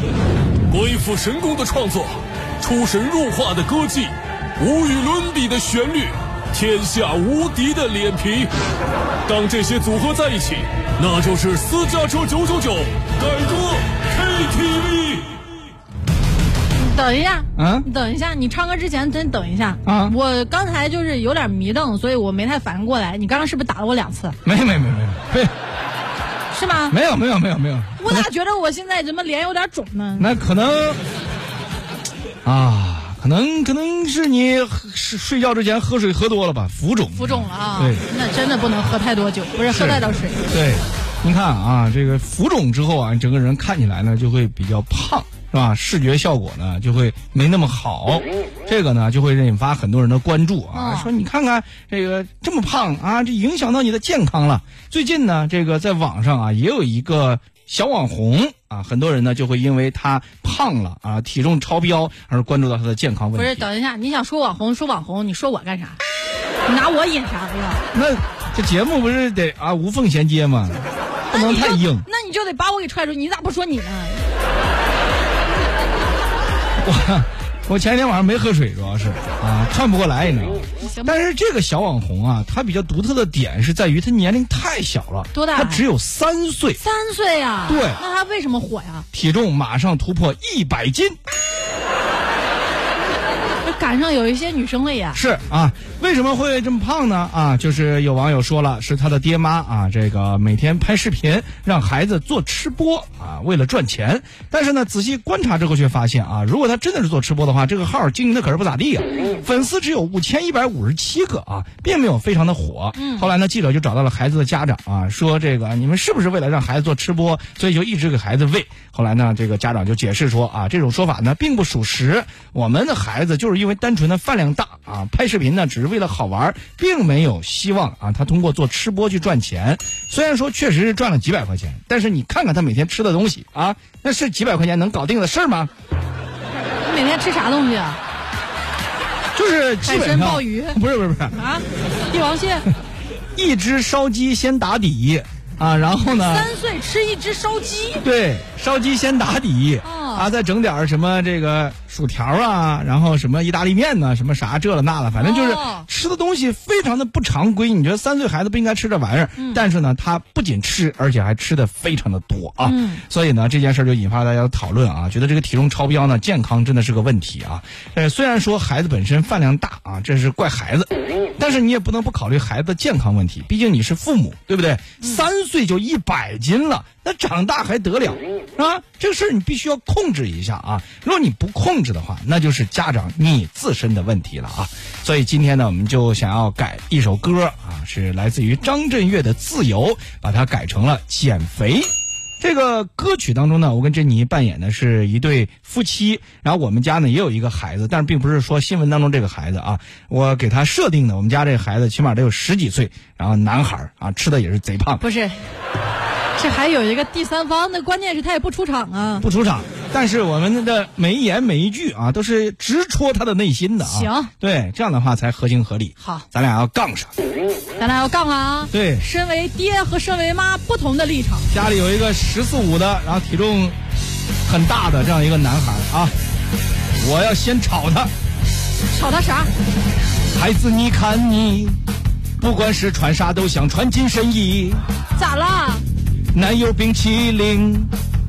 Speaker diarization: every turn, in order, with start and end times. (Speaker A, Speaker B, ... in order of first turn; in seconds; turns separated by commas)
Speaker A: 0.7-8.5, Speaker A: 9.3-15.3, Speaker B: 16.8-24.4, Speaker C: 17.6-17.9, Speaker C: 19.8-20.1, Speaker C: 24.4-25.5, Speaker B: 26.5-27.0, Speaker C: 26.9-28.3, Speaker B: 28.0-30.3, Speaker C: 30.2-31.0, Speaker C: 32.5-38.0, Speaker B: 37.1-40.4, Speaker C: 39.7-63.7, Speaker B: 50.7-51.1, Speaker B: 63.3-66.0, Speaker B: 66.7-67.8, Speaker C: 67.9-70.8, Speaker B: 71.3-74.2, Speaker C: 71.3-72.1, Speaker C: 76.8-86.8, Speaker B: 80.8-81.2, Speaker B: 85.3-85.8, Speaker B: 86.8-89.1, Speaker C: 87.7-88.0, Speaker C: 89.1-91.2, Speaker B: 93.6-95.2, Speaker C: 95.1-135.7, Speaker B: 113.0-113.3, Speaker B: 136.8-138.0, Speaker C: 139.3-141.4, Speaker B: 139.8-140.8, Speaker B: 141.3-142.7, Speaker C: 143.3-146.5, Speaker B: 146.1-148.0, Speaker C: 148.0-191.9, Speaker B: 149.8-150.3, Speaker B: 155.1-155.9, Speaker B: 162.6-163.0, Speaker C: 192.4-205.0, Speaker B: 205.0-205.4, Speaker B: 206.4-209.3, Speaker C: 209.2-217.1, Speaker B: 213.8-214.3, Speaker B: 216.0-216.2, Speaker B: 217.8-221.5, Speaker C: 218.7-219.0, Speaker C: 221.5-223.8, Speaker C: 224.5-226.1, Speaker C: 227.0-228.1, Speaker B: 228.9-229.5, Speaker C: 230.3-231.8, Speaker C: 232.4-234.8, Speaker B: 235.2-235.8, Speaker C: 236.3-237.9